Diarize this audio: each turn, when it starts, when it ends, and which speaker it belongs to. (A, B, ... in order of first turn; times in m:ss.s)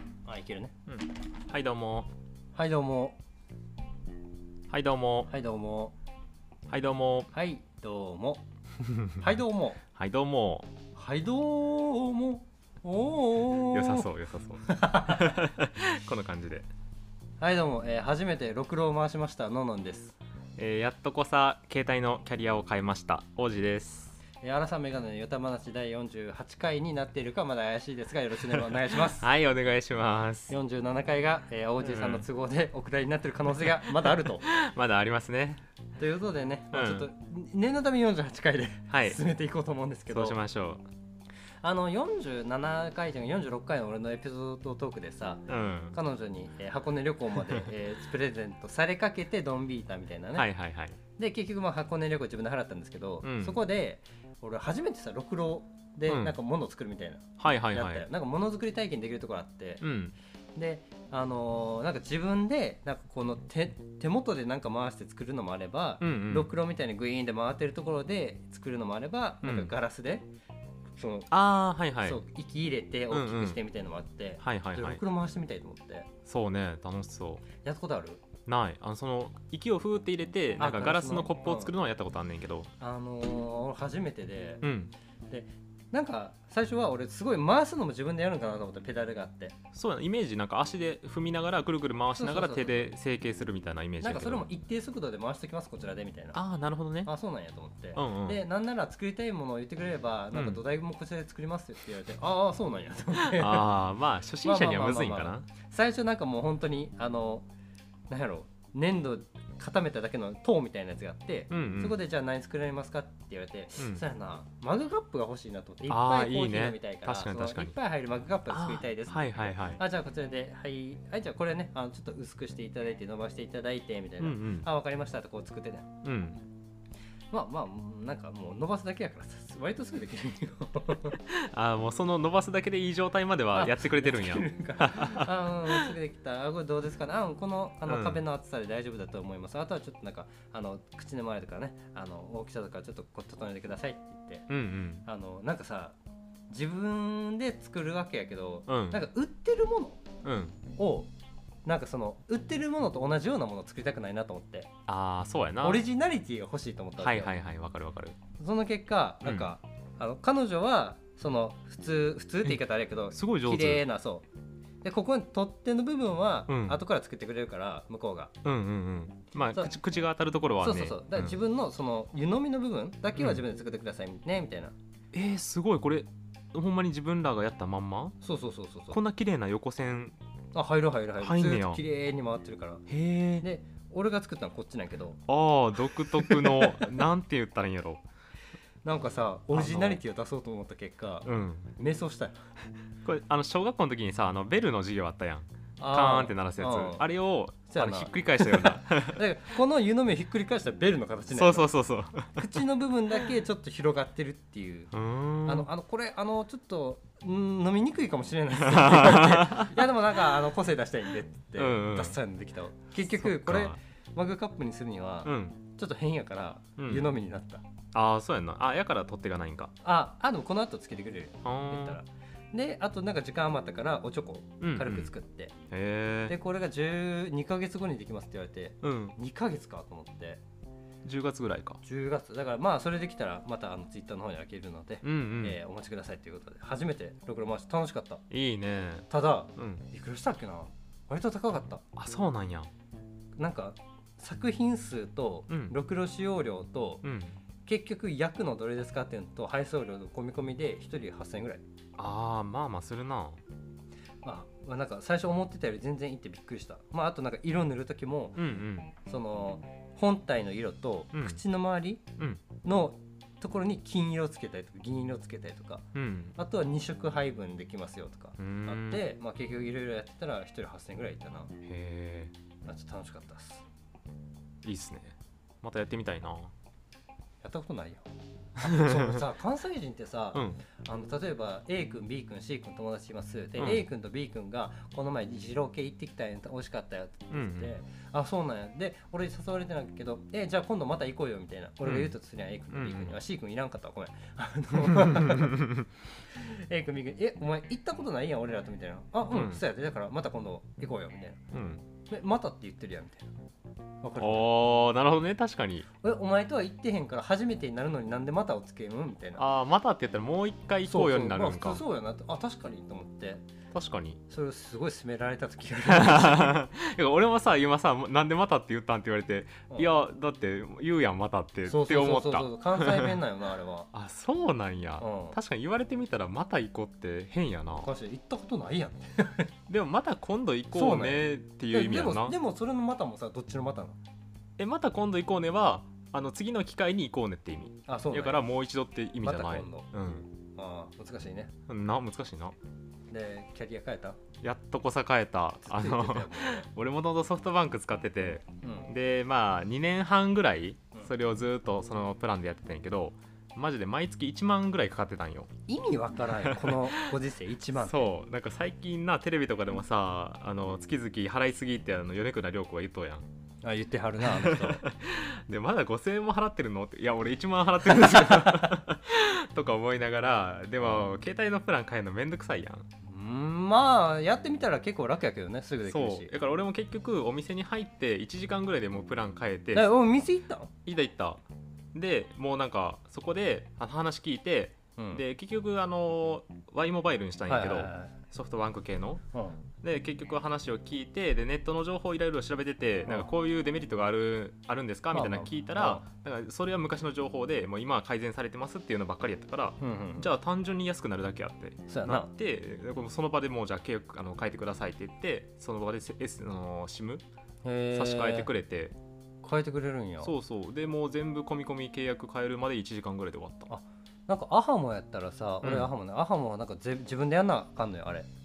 0:00.2-0:00.7 A
0:00.9-0:02.1 B
0:02.5-0:03.2 A
0:04.7-0:05.3 B
0:05.3-0:05.9 A
0:06.7-0:07.3 B
0:07.3-0:08.4 A
0:08.9-0:09.3 B
0:09.0-0:09.8 A
0:10.0-0:10.7 B
0:11.0-0:14.1 A
0:13.7-0:16.7 B
0:14.6-0:15.4 A
0:17.4-0:20.2 A
0:20.6-0:24.2 B
0:24.4-0:29.3 A
0:28.6-0:30.5 B
0:30.5-0:34.5 A
0:31.8-0:32.3 B
0:33.7-0:35.6 B
0:36.0-0:40.4 A
0:36.7-0:37.1 B
0:38.9-0:39.2 B
0:40.1-0:40.8 B
0:41.6-0:50.5 A
0:45.5-0:46.0 B
0:50.4-0:51.0 B
0:51.2-0:59.8 A
0:53.2-0:53.6 B
0:56.1-0:56.3 B
0:57.4-0:58.1 B
0:59.8-1:00.2 B
1:00.6-1:10.3 A
1:06.0-1:06.5 B
1:09.4-1:09.7 B
1:11.0-1:11.3 A
1:11.3-1:12.2 B
1:12.0-1:16.1 A
1:13.1-1:13.6 B
1:14.4-1:15.0 B
1:16.2-1:17.4 B
1:17.6-1:18.2 A
1:18.5-1:22.7 B
1:20.6-1:21.7 A
1:22.8-1:24.7 A
1:24.6-1:24.9 B
1:25.3-1:29.6 A
1:29.7-1:34.5 B
1:32.1-1:32.9 A
1:34.0-1:36.4 A
1:36.3-1:37.1 B
1:37.0-1:43.7 A
1:37.9-1:38.4 B
1:40.3-1:40.6 B
1:43.3-1:45.4 B
1:44.4-1:47.4 A
1:48.1-2:05.9 A
1:51.5-1:52.0 B
1:53.8-1:54.0 B
1:55.9-1:57.8 B
1:58.5-1:59.8 B
2:04.2-2:04.7 B
2:06.0-2:06.4 B
2:07.3-2:11.2 A
2:11.2-2:15.9 B
2:13.5-2:24.5 A
2:17.9-2:18.2 B
2:24.5-2:25.0 B
2:25.0-2:25.9 A
2:26.5-2:30.0 A
2:28.7-2:29.0 B
2:30.2-2:30.6 B
2:30.8-2:31.1 A
2:31.6-2:34.7 A
2:34.9-2:35.8 B
2:35.6-2:37.3 A
2:37.0-2:38.2 B
2:38.4-2:44.2 A
2:43.1-2:43.8 B
2:44.8-2:48.3 A
2:46.5-2:46.8 B
2:48.4-2:51.4 B
2:50.6-2:54.7 A
2:53.2-2:53.4 B
2:55.1-2:58.2 B
2:58.2-2:59.0 A
2:58.9-3:00.2 B
3:00.5-3:02.8 A
3:01.2-3:01.8 B
3:02.9-3:03.5 B
3:03.4-3:05.2 A
3:05.3-3:08.0 B
3:06.1-3:07.0 A
3:08.8-3:12.4 A
3:09.5-3:10.0 B
3:11.2-3:11.7 B
3:13.0-3:19.2 B
3:15.8-3:17.1 A
3:17.7-3:21.7 A
3:21.3-3:22.6 B
3:22.3-3:24.9 A
3:24.9-3:25.7 B
3:25.4-3:37.6 A
3:28.6-3:29.8 B
3:31.6-3:32.2 B
3:33.0-3:33.8 B
3:35.2-3:35.6 B
3:36.8-3:37.1 B
3:37.9-3:39.7 B
3:39.8-3:45.5 A
3:41.4-3:42.0 B
3:44.6-3:45.1 B
3:45.7-3:46.4 B
3:46.3-3:50.4 A
3:48.8-3:49.2 B
3:51.0-3:51.8 B
3:51.8-3:58.2 A
3:55.0-3:55.6 B
3:58.3-3:59.8 B
3:59.1-4:01.8 A
4:01.9-4:02.7 B
4:03.4-4:07.0 A
4:05.5-4:05.8 B
4:07.0-4:07.4 B
4:07.7-4:11.6 A
4:12.0-4:13.4 B
4:14.2-4:18.4 A
4:18.4-4:18.9 B
4:19.0-4:22.0 A
4:21.1-4:21.4 B
4:22.6-4:31.5 A
4:25.9-4:26.4 B
4:28.4-4:29.0 B
4:31.6-4:32.3 B
4:32.6-4:33.6 A
4:34.6-4:36.5 B
4:37.4-4:55.7 A
4:38.6-4:39.2 B
4:40.3-4:40.6 B
4:43.6-4:43.8 B
4:47.3-4:47.7 B
4:51.8-4:52.1 B
4:52.7-4:53.2 B
4:54.8-4:55.8 B
4:56.3-5:01.4 A
4:59.3-4:59.6 B
5:01.5-5:01.8 B
5:02.1-5:03.3 A
5:04.0-5:04.5 A
5:04.2-5:05.9 B
5:06.0-5:09.4 A
5:09.4-5:11.8 B
5:10.9-5:13.4 A
5:13.7-5:14.2 B
5:14.3-5:16.6 A
5:15.9-5:23.1 B
5:21.6-5:23.9 A
5:23.9-5:27.9 B
5:25.0-5:25.4 A
5:27.8-5:29.5 A
5:29.7-5:32.4 B
5:30.7-5:34.0 A
5:34.6-5:40.3 B
5:37.9-5:38.4 A
5:39.2-5:39.9 A
5:40.6-5:41.5 A
5:41.7-5:42.6 B
5:43.1-5:44.2 A
5:44.4-5:55.5 B
5:45.6-5:46.7 A
5:48.6-5:48.9 A
5:55.7-5:58.0 A
5:56.3-5:56.9 B
5:57.8-6:03.2 B
6:03.6-6:04.8 A
6:04.2-6:12.9 B
6:07.9-6:08.8 A
6:13.0-6:16.3 A
6:15.9-6:19.9 B
6:19.7-6:20.7 A
6:20.9-6:21.4 B
6:21.9-6:29.2 B
6:25.0-6:25.2 A
6:27.5-6:28.1 A
6:29.3-6:29.6 A
6:29.8-6:47.2 B
6:35.1-6:36.0 A
6:39.8-6:40.3 A
6:41.9-6:42.3 A
6:47.6-6:48.5 A
6:47.9-6:49.0 B
6:49.4-6:50.3 A
6:50.2-6:53.7 B
6:53.7-6:58.3 A
6:55.6-6:55.9 B